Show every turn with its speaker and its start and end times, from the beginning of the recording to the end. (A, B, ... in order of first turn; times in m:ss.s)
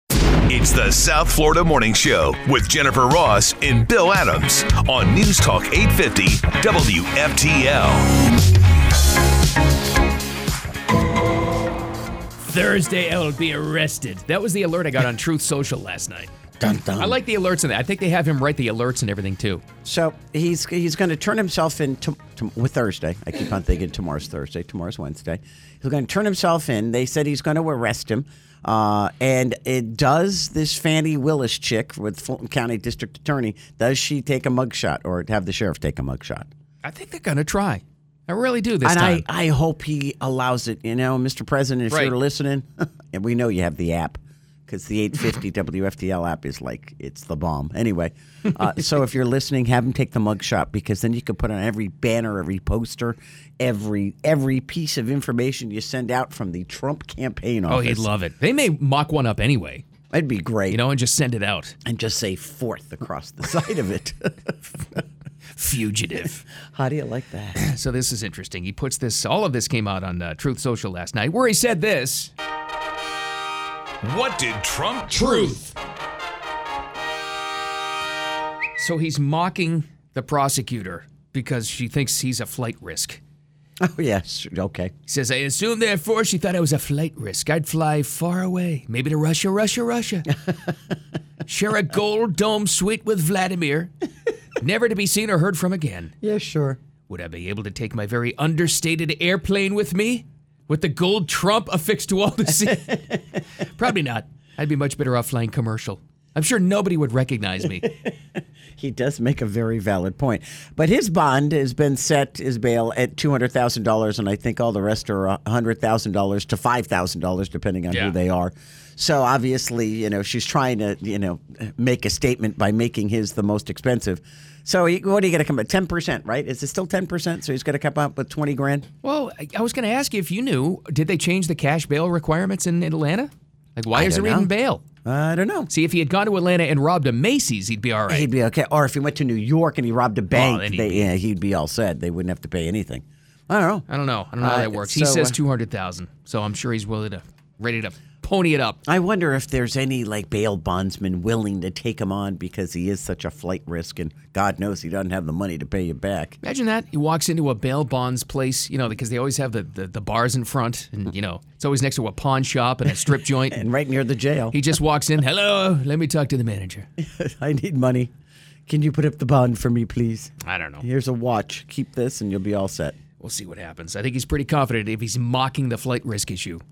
0:00.5-0:08.1 A
0:12.4-0:16.3 B
0:16.6-0:17.2 C
0:17.0-0:19.6 B
0:19.8-0:36.5 C
0:36.8-0:39.2 B
0:38.8-0:58.1 C
0:41.9-0:42.1 B
0:57.7-0:59.8 B
1:00.1-1:00.8 C
1:00.7-1:01.8 B
1:01.8-1:05.0 C
1:05.6-1:06.4 B
1:06.6-1:07.6 C
1:07.5-1:12.3 B
1:14.0-1:15.7 A
1:15.2-1:15.5 B
1:18.8-1:23.2 B
1:23.8-1:24.9 C
1:25.1-1:30.3 B
1:30.5-1:30.7 C
1:31.4-1:33.9 B
1:34.6-1:36.1 B
1:36.2-1:36.8 C
1:37.1-1:43.1 B
1:42.6-1:43.2 C
1:43.6-1:47.9 B
1:48.8-2:08.9 C
1:57.9-1:58.2 B
2:09.0-2:14.8 B
2:13.9-2:14.5 C
2:15.0-2:15.7 C
2:15.7-2:18.3 B
2:18.1-2:23.8 C
2:20.3-2:21.1 B
2:23.9-2:28.8 B
2:24.4-2:25.4 C
2:28.8-2:36.4 C
2:36.4-2:43.6 B
2:42.9-2:44.6 C
2:44.5-2:46.9 B
2:47.0-2:48.1 C
2:48.7-2:53.0 C
2:50.4-2:50.8 B
2:53.2-2:56.6 B